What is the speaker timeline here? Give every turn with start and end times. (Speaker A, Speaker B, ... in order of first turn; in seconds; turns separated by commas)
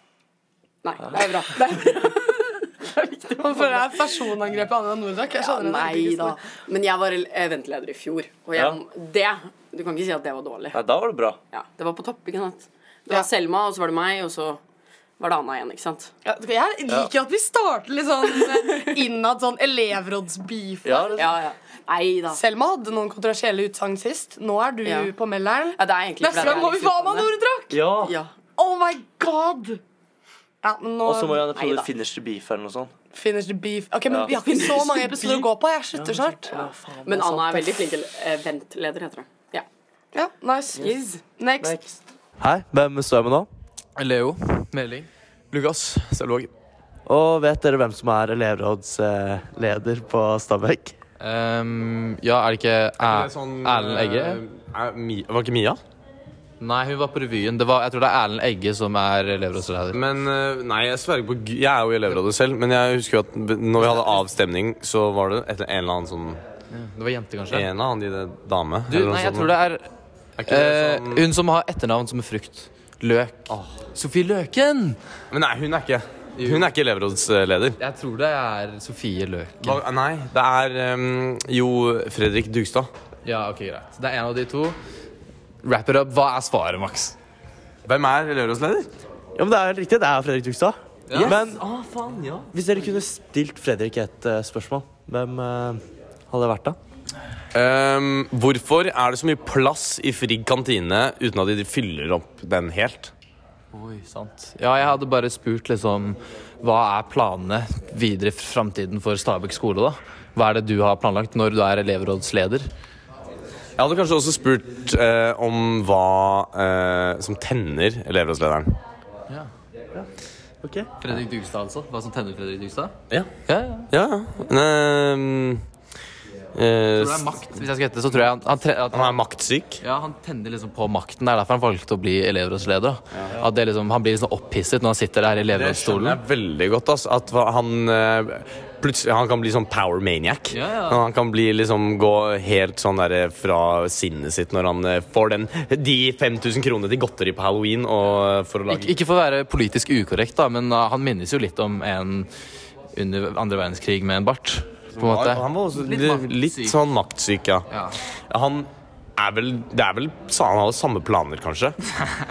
Speaker A: 0.8-4.2, Speaker B: 3.4-6.4, Speaker A: 5.3-10.8, Speaker C: 10.7-11.4, Speaker A: 11.5-14.6, Speaker A: 15.2-16.1, Speaker B: 16.2-21.3, Speaker A: 18.2-19.0, Speaker C: 20.8-21.3, Speaker A: 21.2-22.4, Speaker B: 22.3-27.8, Speaker A: 24.8-25.1, Speaker A: 25.8-27.3, Speaker C: 26.4-26.6, Speaker C: 27.7-28.1, Speaker A: 28.0-28.3, Speaker B: 28.6-29.8, Speaker B: 30.6-31.4, Speaker C: 31.0-32.9, Speaker A: 31.5-31.9, Speaker B: 33.1-36.5, Speaker C: 34.1-34.4, Speaker A: 34.3-35.5, Speaker C: 35.9-37.5, Speaker A: 36.5-39.6, Speaker B: 40.1-41.8, Speaker A: 40.8-41.2, Speaker C: 41.6-43.5, Speaker D: 44.0-45.1, Speaker E: 45.5-46.5, Speaker C: 47.0-51.0, Speaker D: 51.2-54.4, Speaker E: 53.0-55.8, Speaker D: 56.6-60.0, Speaker E: 59.9-66.4, Speaker D: 66.7-67.7, Speaker E: 67.5-69.5, Speaker D: 68.9-69.9, Speaker E: 70.4-71.2, Speaker D: 70.5-75.0, Speaker E: 73.5-73.8, Speaker E: 75.3-77.8, Speaker D: 76.4-76.7, Speaker D: 77.8-79.8, Speaker E: 79.6-82.9, Speaker D: 83.2-84.8, Speaker D: 85.6-87.2, Speaker E: 87.8-88.9, Speaker C: 89.3-96.8, Speaker D: 91.1-91.4, Speaker E: 97.5-103.1, Speaker D: 103.7-112.7, Speaker E: 113.8-118.7, Speaker C: 120.6-120.9, Speaker D: 121.0-123.9, Speaker E: 123.9-125.6, Speaker E: 126.5-127.4, Speaker D: 127.0-129.2, Speaker E: 128.9-129.8, Speaker D: 129.8-136.2, Speaker E: 135.5-148.9, Speaker D: 140.5-141.0, Speaker D: 148.7-152.3, Speaker D: 152.9-156.8, Speaker E: 155.0-157.7, Speaker D: 157.7-157.9, Speaker E: 158.3-161.8